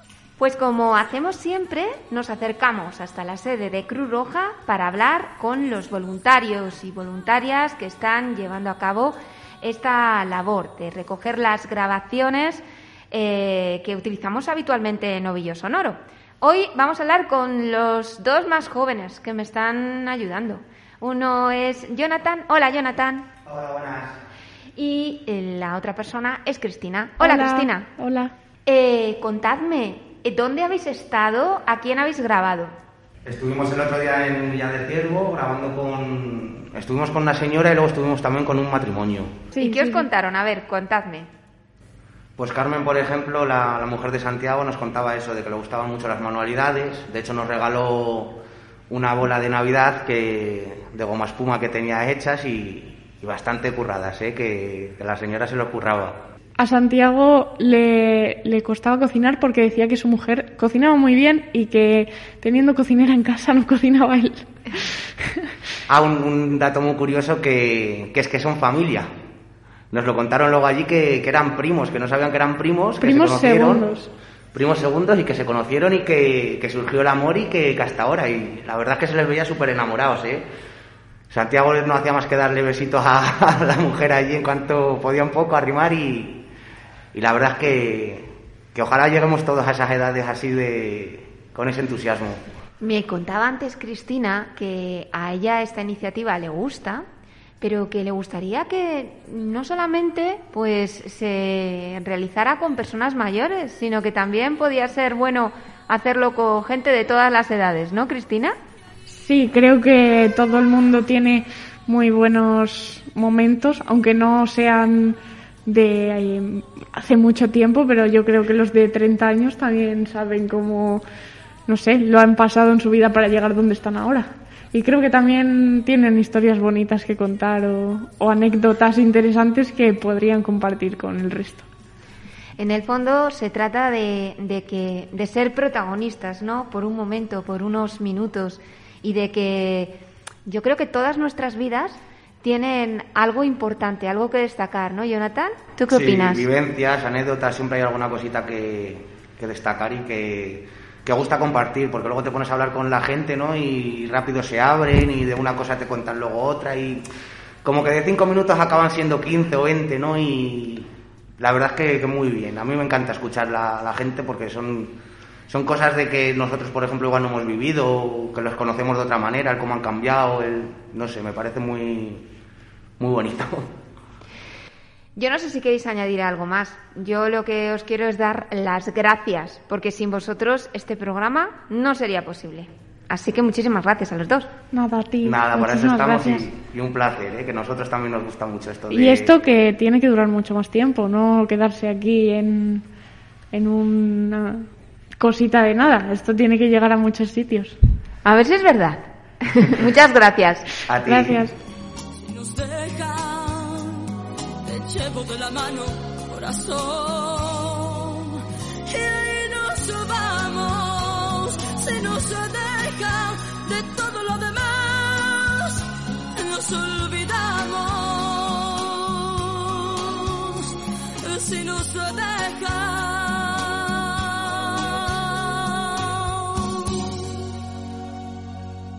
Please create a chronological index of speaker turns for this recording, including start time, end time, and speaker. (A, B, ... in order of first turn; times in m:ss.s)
0:00.4-0:23.3 A
0:23.5-0:24.2 B
0:24.8-0:27.9 A
0:27.2-0:28.3 C
0:28.7-0:32.7 A
0:33.2-0:39.4 B
0:39.5-0:40.1 C
0:39.6-0:41.3 A
0:42.4-0:56.2 B
0:56.6-1:04.5 C
1:05.9-1:09.1 B
1:09.9-1:13.9 B
1:13.0-1:14.1 C
1:14.5-1:20.4 B
1:21.3-1:26.5 B
1:27.1-1:32.4 B
1:32.8-1:37.1 A
1:37.6-1:48.6 A
1:49.1-2:01.0 C
2:01.7-2:11.7 C
2:12.6-2:26.5 A
2:25.9-2:37.0 B
2:37.6-2:45.0 B
2:45.5-2:52.3 B
2:53.0-2:53.7 B
2:55.2-3:04.5 A
3:04.7-3:06.5 C
3:05.2-3:09.4 B
3:08.9-3:12.9 C
3:13.5-3:14.7 C
3:15.2-3:17.8 C
3:18.2-3:20.6 A
3:20.9-3:21.5 B
3:21.0-3:21.6 C
3:22.3-3:24.1 D
3:24.6-3:35.8 D
3:36.4-3:40.6 D
3:41.2-3:46.7 D